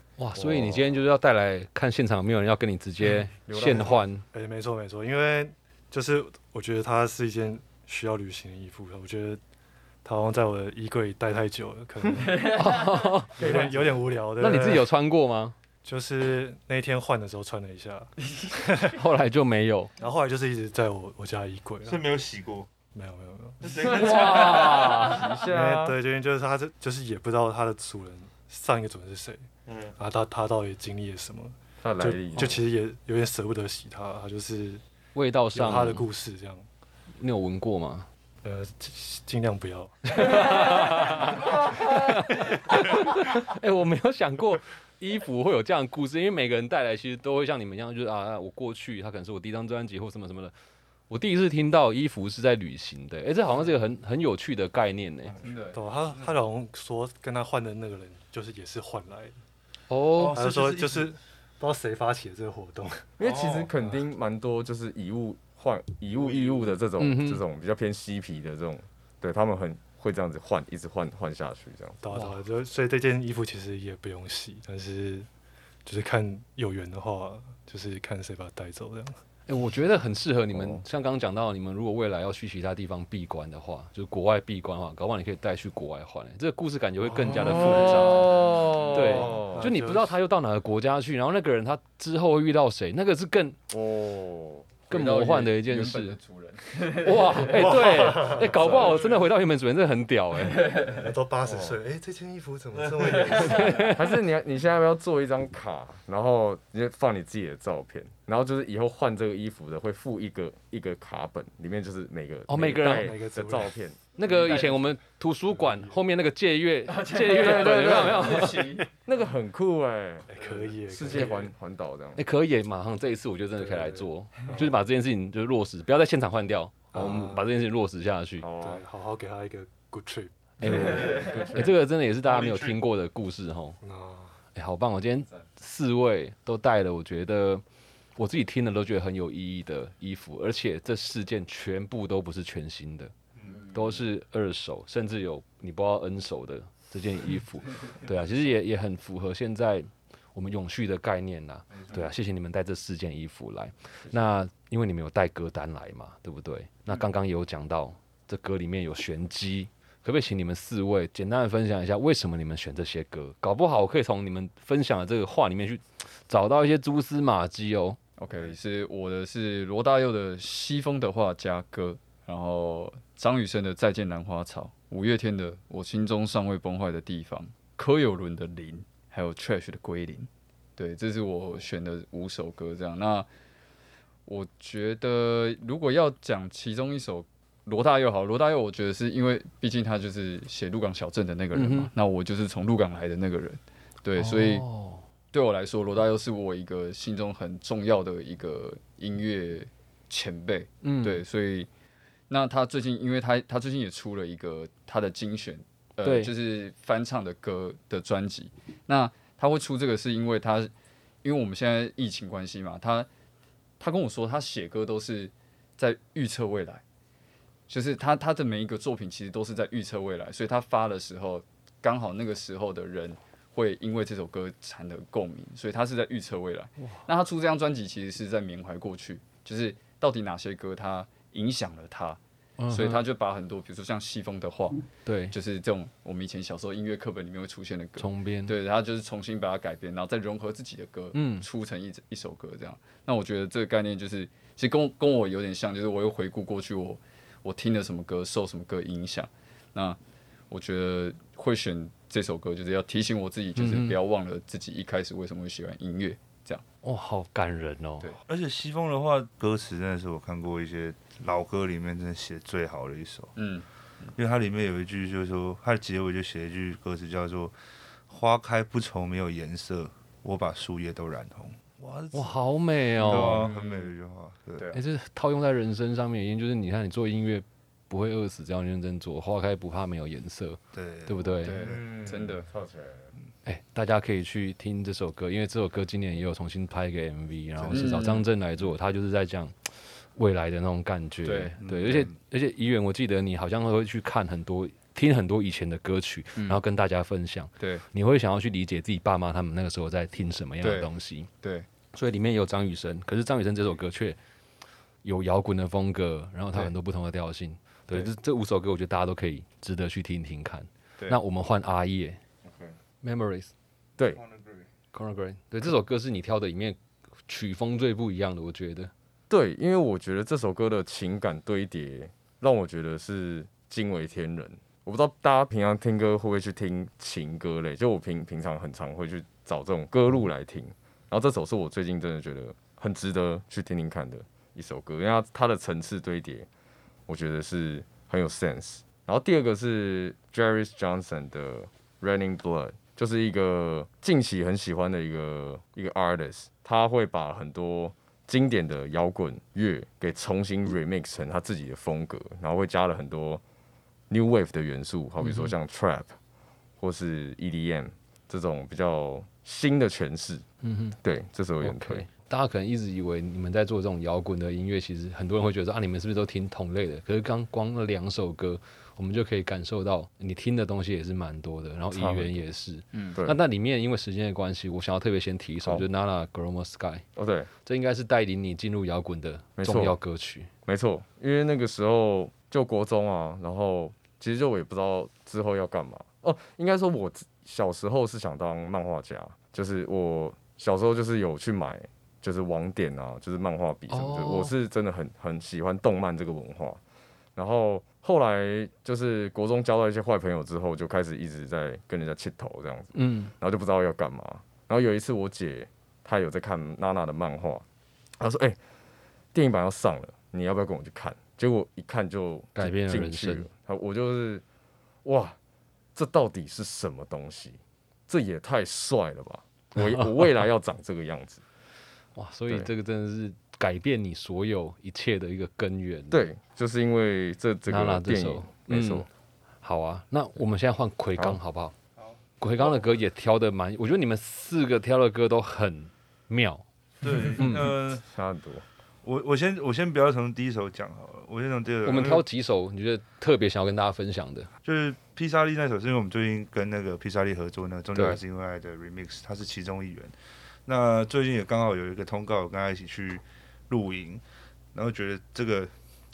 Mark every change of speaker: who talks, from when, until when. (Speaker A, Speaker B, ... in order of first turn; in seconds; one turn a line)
Speaker A: 0.2-4.2
Speaker B: 0.3-0.9
Speaker B: 3.5-4.0
Speaker C: 3.7-9.4
Speaker C: 10.0-14.9
Speaker A: 12.5-13.4
Speaker B: 13.4-14.0
Speaker A: 14.4-15.6
Speaker C: 15.8-19.0
Speaker A: 18.9-19.9
Speaker C: 20.0-22.0
Speaker D: 21.9-22.7
Speaker C: 22.9-23.9
Speaker D: 23.6-24.8
Speaker A: 23.8-25.3
Speaker B: 23.8-26.0
Speaker C: 25.4-29.5
Speaker C: 30.0-34.8
Speaker B: 31.8-32.6
Speaker A: 35.1-36.1
Speaker C: 35.5-36.7
Speaker A: 37.2-38.1
Speaker C: 38.4-41.5
Speaker A: 40.1-50.5
Speaker A: 51.1-55.4
Speaker E: 55.4-55.8
Speaker C: 55.7-59.4
Speaker A: 59.9-60.4
Speaker D: 60.2-61.1
Speaker C: 60.2-63.1
Speaker B: 63.2-72.0
Speaker D: 63.2-63.7
Speaker A: 67.0-67.4
Speaker C: 72.0-75.3
Speaker A: 72.1-72.4
Speaker C: 75.8-79.2
Speaker A: 79.5-88.4
Speaker B: 80.5-80.8
Speaker C: 87.1-90.2
Speaker B: 87.3-89.7
Speaker A: 88.9-93.6
Speaker B: 93.7-94.9
Speaker A: 94.9-96.2
Speaker E: 94.9-97.5
Speaker A: 96.9-100.7
Speaker C: 97.4-99.0
Speaker B: 98.5-99.0
Speaker C: 100.8-103.9
Speaker B: 101.5-101.8
Speaker A: 103.3-104.0
Speaker B: 103.9-114.0
Speaker A: 112.5-113.1
Speaker C: 112.8-114.9
Speaker A: 114.2-118.8
Speaker C: 115.5-116.0
Speaker E: 116.9-118.9
Speaker B: 117.3-122.2
Speaker C: 120.3-121.5
Speaker A: 122.2-128.5
Speaker C: 123.7-124.8
Speaker C: 126.9-127.4
Speaker B: 128.4-128.8
Speaker C: 128.6-131.2
Speaker A: 130.6-133.8
Speaker B: 130.6-131.8
Speaker D: 132.3-132.8
Speaker C: 133.8-134.4
Speaker A: 134.6-137.6
Speaker A: 138.2-143.1
Speaker A: 143.7-168.0
Speaker E: 168.2-183.3
Speaker E: 184.3-194.7
Speaker A: 191.6-191.9
Speaker A: 194.2-195.0
Speaker E: 195.3-201.7
Speaker A: 200.8-201.2
Speaker E: 202.3-210.7
Speaker A: 206.0-206.3
Speaker E: 211.2-213.1
Speaker E: 213.8-216.8
Speaker E: 217.7-232.2
Speaker A: 232.6-233.0
Speaker E: 232.7-250.0
Speaker A: 235.1-235.3
Speaker A: 238.0-238.6
Speaker A: 241.1-241.5
Speaker E: 250.5-256.6
Speaker A: 253.6-254.0
Speaker A: 256.8-258.1
Speaker D: 258.3-263.3
Speaker E: 263.4-264.1
Speaker D: 264.2-267.6
Speaker D: 268.1-272.4
Speaker A: 272.1-273.5
Speaker D: 273.0-274.6
Speaker E: 273.1-273.9
Speaker A: 274.7-281.6
Speaker D: 280.7-281.8
Speaker E: 281.4-282.5
Speaker B: 281.6-283.1
Speaker A: 283.5-301.3
Speaker D: 287.6-288.0
Speaker E: 287.7-288.3
Speaker E: 291.2-291.6
Speaker D: 291.6-292.1
Speaker E: 296.4-296.6
Speaker E: 297.6-297.9
Speaker E: 300.6-301.7
Speaker A: 301.9-304.2
Speaker A: 305.0-312.2
Speaker B: 312.4-312.8
Speaker A: 313.0-313.5
Speaker B: 314.0-314.2
Speaker A: 314.9-318.9
Speaker B: 319.3-336.5
Speaker B: 337.1-353.4
Speaker B: 354.1-356.2
Speaker A: 355.2-355.5
Speaker B: 356.8-360.4
Speaker A: 360.6-361.0
Speaker B: 361.0-362.1
Speaker A: 361.6-377.1
Speaker B: 371.9-372.4
Speaker B: 377.2-377.5
Speaker A: 377.6-380.5
Speaker B: 379.6-380.0
Speaker B: 380.7-396.8
Speaker A: 393.9-394.5
Speaker B: 397.4-407.6
Speaker A: 402.9-403.3
Speaker B: 408.2-408.6
Speaker B: 409.3-414.4
Speaker A: 412.6-413.5
Speaker B: 415.0-415.4
Speaker B: 415.9-421.4
Speaker A: 419.8-420.1
Speaker A: 422.2-426.2
Speaker B: 426.1-429.1
Speaker A: 427.7-429.1
Speaker A: 429.6-431.7
Speaker A: 432.4-436.6
Speaker D: 437.0-438.0
Speaker A: 437.4-437.7
Speaker B: 438.1-438.6
Speaker D: 439.0-442.2
Speaker A: 441.9-444.5
Speaker D: 444.6-450.1
Speaker D: 450.7-454.2
Speaker D: 454.7-455.7